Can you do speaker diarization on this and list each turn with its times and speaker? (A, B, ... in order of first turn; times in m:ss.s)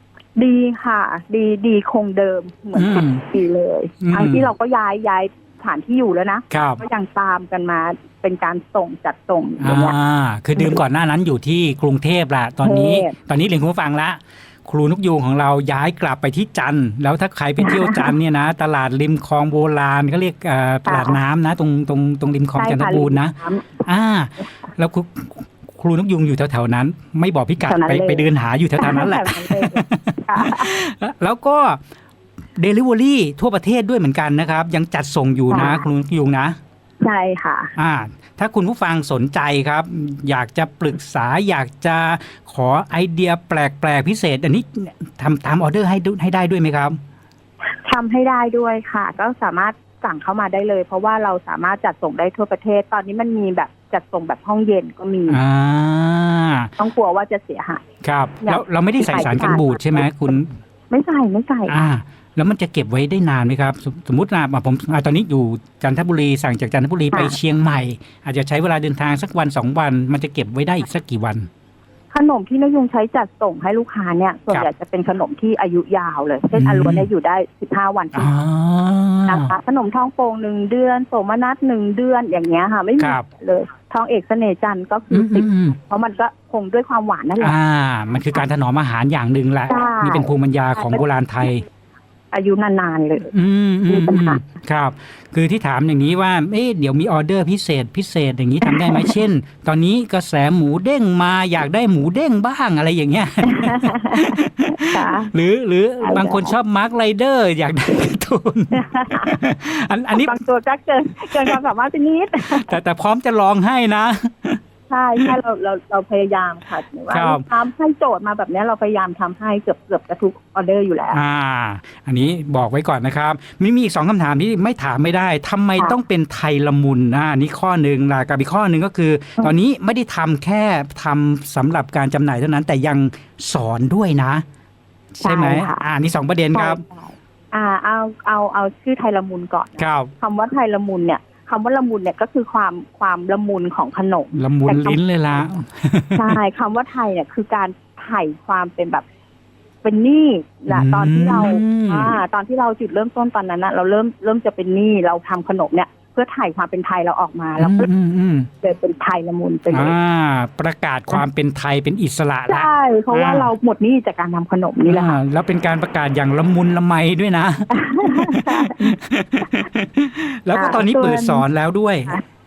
0:00.4-0:10.0 A
0:02.8-0:03.2 B
0:04.0-0:04.4 B
0:06.5-0:06.8 B
0:09.6-0:23.4 B
0:12.6-0:13.2 A
0:17.6-0:18.1 A
0:20.9-0:21.2 A
0:22.6-0:23.7 A
0:23.9-0:31.8 B
0:27.7-0:28.3 A
0:28.8-0:30.8 A
0:32.6-0:36.6 B
0:35.5-0:35.8 A
0:37.0-0:37.7 A
0:37.8-0:47.0 B
0:47.8-0:55.4 A
0:55.3-0:56.7 B
0:56.8-0:57.8 A
0:58.0-1:00.5 B
0:58.4-1:00.0 A
1:00.9-1:01.8 A
1:01.7-1:11.5 B
1:12.1-1:18.3 A
1:16.6-1:17.1 B
1:18.1-1:19.5 B
1:19.3-1:27.6 A
1:23.0-1:23.2 B
1:25.1-1:25.8 B
1:27.4-1:31.6 B
1:29.7-1:31.0 A
1:32.3-1:33.3 A
1:33.3-1:50.3 B
1:33.9-1:34.4 A
1:38.6-1:39.2 A
1:43.5-1:45.3 A
1:46.0-1:46.5 A
1:48.7-1:49.4 A
1:50.1-1:52.8 A
1:52.5-1:54.6 B
1:54.9-2:01.2 A
1:57.1-1:57.4 B
2:01.1-2:14.4 B
2:15.2-2:16.8 B
2:15.2-2:15.8 A
2:16.5-2:25.0 A
2:19.8-2:20.1 B
2:24.4-2:26.4 B
2:26.2-2:29.0 A
2:29.8-2:37.9 A
2:30.7-2:32.1 B
2:37.6-2:38.5 B
2:38.6-2:40.0 A
2:39.7-2:43.5 B
2:42.5-2:45.2 A
2:44.9-2:52.1 B
2:47.7-2:48.9 A
2:50.5-2:51.5 A